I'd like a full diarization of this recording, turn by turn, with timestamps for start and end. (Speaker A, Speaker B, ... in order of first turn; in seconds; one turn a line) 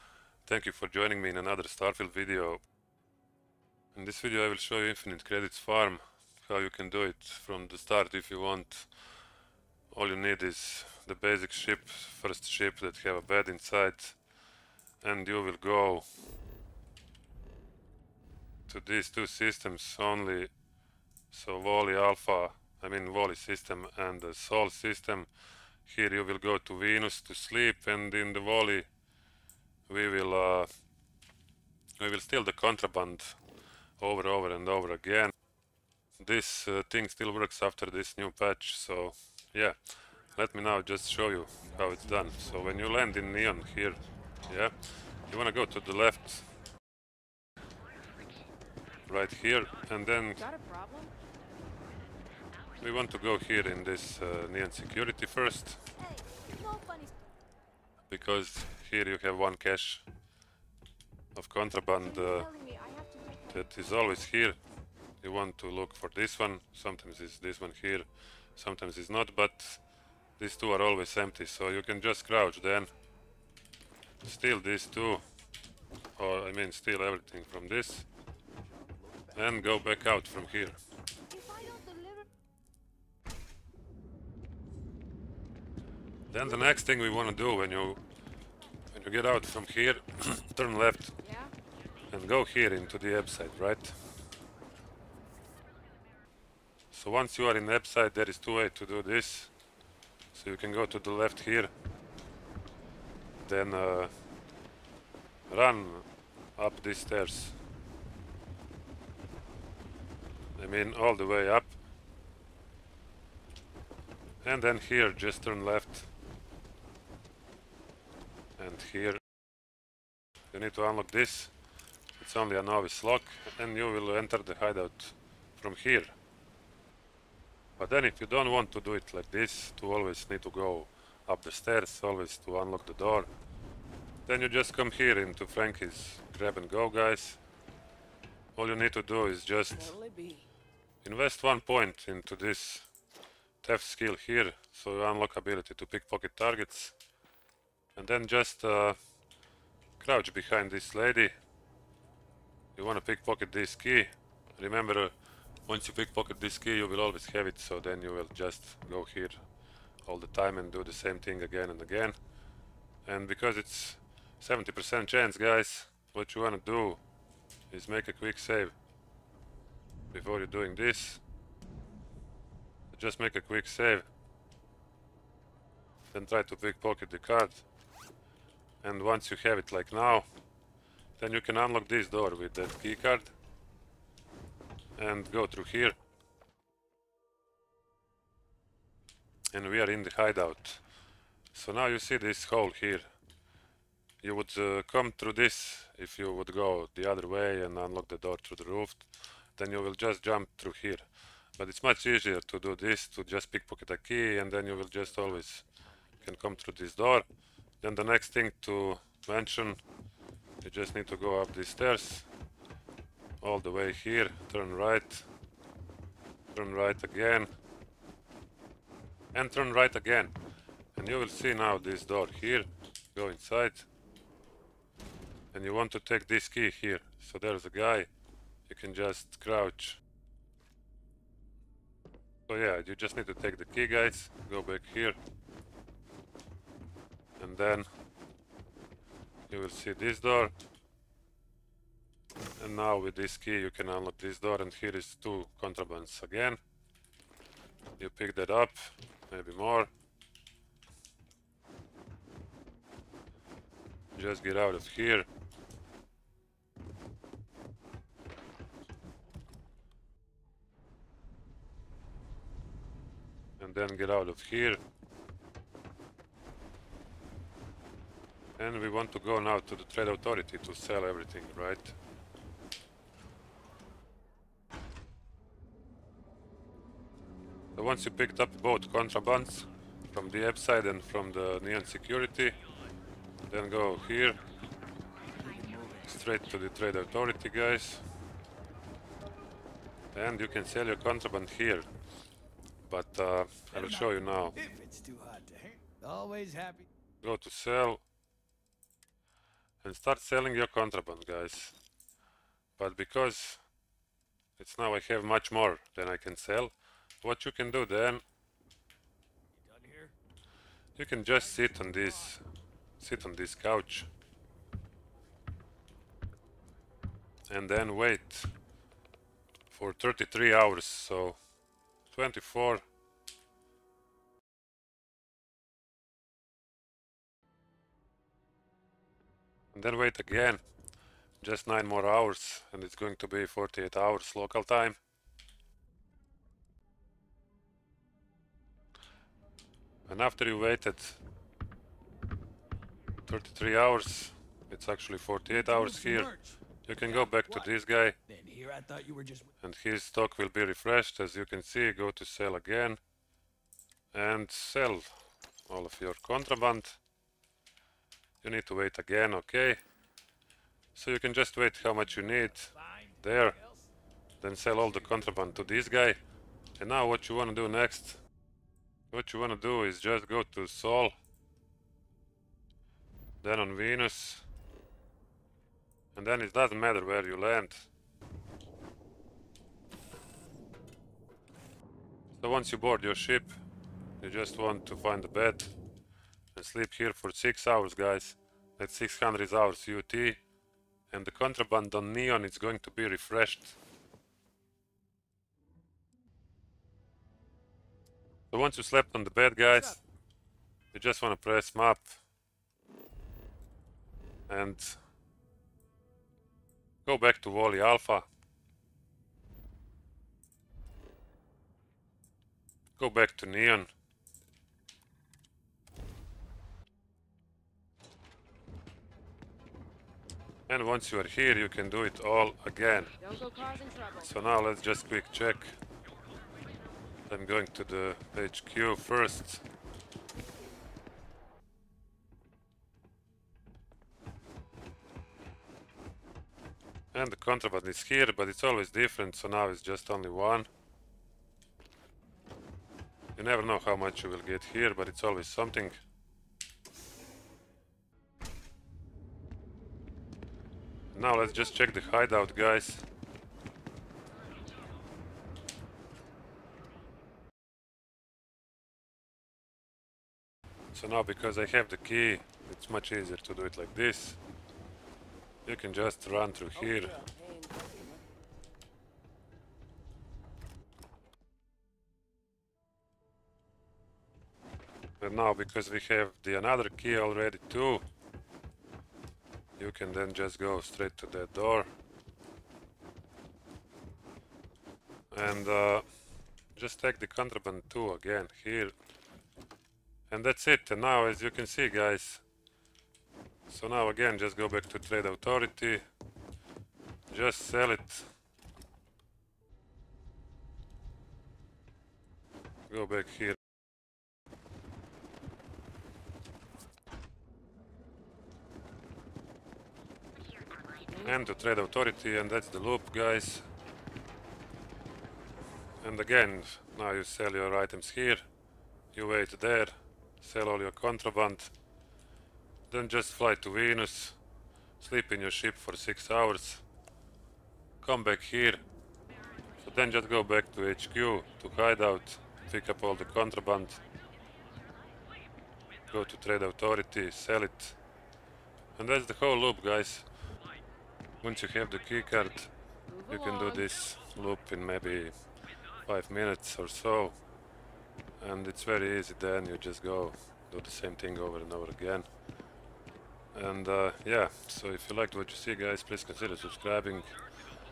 Speaker A: 0.5-2.6
Speaker A: 4.0-8.9
Speaker A: 9.9-14.2
Speaker A: 15.0-16.1
Speaker A: 18.7-20.5
Speaker A: 21.3-25.3
Speaker A: 25.9-28.9
Speaker A: 29.9-30.7
Speaker A: 32.0-33.4
Speaker A: 34.0-35.3
Speaker A: 36.2-39.8
Speaker A: 40.4-46.5
Speaker A: 49.1-50.5
Speaker B: 50.4-51.1
Speaker A: 52.8-55.8
Speaker B: 56.3-57.1
Speaker A: 58.1-60.0
Speaker A: 61.4-62.5
Speaker B: 62.2-63.5
Speaker A: 63.5-64.6
Speaker A: 65.2-68.1
Speaker A: 68.6-69.8
Speaker A: 70.4-72.9
Speaker A: 74.2-75.2
Speaker A: 76.2-78.1
Speaker A: 79.3-80.8
Speaker B: 81.3-82.2
Speaker A: 86.3-88.0
Speaker A: 88.9-91.2
Speaker B: 91.2-91.5
Speaker A: 92.1-94.0
Speaker A: 96.9-99.5
Speaker A: 100.3-101.7
Speaker A: 103.4-104.1
Speaker A: 105.5-106.0
Speaker A: 106.6-107.6
Speaker A: 110.6-111.8
Speaker A: 114.4-116.1
Speaker A: 118.6-119.2
Speaker A: 120.5-121.5
Speaker A: 122.2-126.2
Speaker A: 127.8-133.3
Speaker A: 134.3-137.4
Speaker A: 138.6-140.0
Speaker B: 139.8-140.4
Speaker A: 141.0-142.9
Speaker A: 143.6-147.0
Speaker A: 148.0-149.0
Speaker A: 150.0-151.3
Speaker A: 152.8-155.1
Speaker A: 155.7-159.4
Speaker A: 160.1-162.2
Speaker A: 163.1-167.0
Speaker A: 167.7-168.8
Speaker A: 170.1-171.2
Speaker A: 172.9-174.1
Speaker A: 176.1-177.6
Speaker A: 178.8-180.3
Speaker A: 181.2-183.3
Speaker A: 185.0-185.9
Speaker A: 189.5-190.8
Speaker A: 191.5-193.1
Speaker A: 194.2-201.1
Speaker A: 201.6-205.7
Speaker A: 206.2-207.3
Speaker A: 207.8-209.8
Speaker A: 210.6-212.3
Speaker A: 213.4-215.3
Speaker A: 216.5-217.5
Speaker A: 219.3-220.3
Speaker A: 220.9-223.9
Speaker A: 225.5-228.1
Speaker A: 228.7-230.0
Speaker A: 232.5-235.2
Speaker A: 237.4-237.9
Speaker A: 239.5-240.5
Speaker A: 242.6-246.6
Speaker A: 248.0-249.9
Speaker A: 254.2-255.3
Speaker A: 263.6-264.8
Speaker A: 268.6-272.0
Speaker A: 277.8-282.6
Speaker A: 283.5-284.4
Speaker C: 285.4-286.1
Speaker A: 286.1-288.0
Speaker A: 290.1-291.9
Speaker A: 292.9-294.6
Speaker C: 293.7-296.9
Speaker A: 297.2-298.0
Speaker A: 299.8-301.8
Speaker A: 302.8-303.6
Speaker A: 304.6-308.2
Speaker C: 309.5-310.1
Speaker A: 311.0-312.4
Speaker C: 311.4-312.3
Speaker A: 313.0-314.1
Speaker A: 317.5-318.5
Speaker A: 319.7-321.4
Speaker A: 322.1-322.8
Speaker A: 329.7-330.6
Speaker A: 331.4-335.0
Speaker A: 340.1-341.2
Speaker A: 343.3-346.3
Speaker C: 345.5-347.7
Speaker A: 346.9-348.2
Speaker C: 348.3-349.5
Speaker A: 349.6-353.0
Speaker A: 354.1-355.1
Speaker A: 355.7-357.0
Speaker A: 358.4-359.8
Speaker A: 360.9-363.6
Speaker C: 362.7-363.9
Speaker A: 364.4-366.2
Speaker A: 366.8-368.2
Speaker A: 369.1-371.1
Speaker A: 373.4-374.5
Speaker A: 376.1-377.9
Speaker A: 382.4-383.5
Speaker A: 384.2-385.7
Speaker A: 386.6-390.4
Speaker A: 391.1-393.8
Speaker A: 398.5-400.0
Speaker A: 400.9-402.2
Speaker A: 404.5-405.0
Speaker A: 407.1-408.3
Speaker A: 413.0-413.9
Speaker A: 420.7-423.1
Speaker B: 423.2-424.3
Speaker A: 424.2-425.8
Speaker A: 427.3-429.6
Speaker A: 437.1-440.7
Speaker A: 443.4-446.0
Speaker A: 451.1-453.1
Speaker A: 460.9-464.4
Speaker A: 465.7-467.2
Speaker B: 467.2-468.2
Speaker A: 475.2-478.0
Speaker A: 479.8-481.9
Speaker A: 485.3-486.1
Speaker A: 486.8-488.9
Speaker A: 490.3-492.4
Speaker A: 493.7-496.0
Speaker A: 497.3-498.3
Speaker A: 502.9-503.6
Speaker A: 511.1-513.6
Speaker A: 516.0-518.5
Speaker A: 519.1-521.7
Speaker A: 522.9-524.4
Speaker A: 525.0-526.8
Speaker A: 528.0-528.8
Speaker A: 529.8-534.0
Speaker A: 536.1-538.0
Speaker A: 539.0-540.3
Speaker A: 541.4-542.7
Speaker B: 543.1-543.9
Speaker A: 543.3-545.4
Speaker A: 546.0-547.4
Speaker A: 548.4-552.3
Speaker A: 553.5-557.3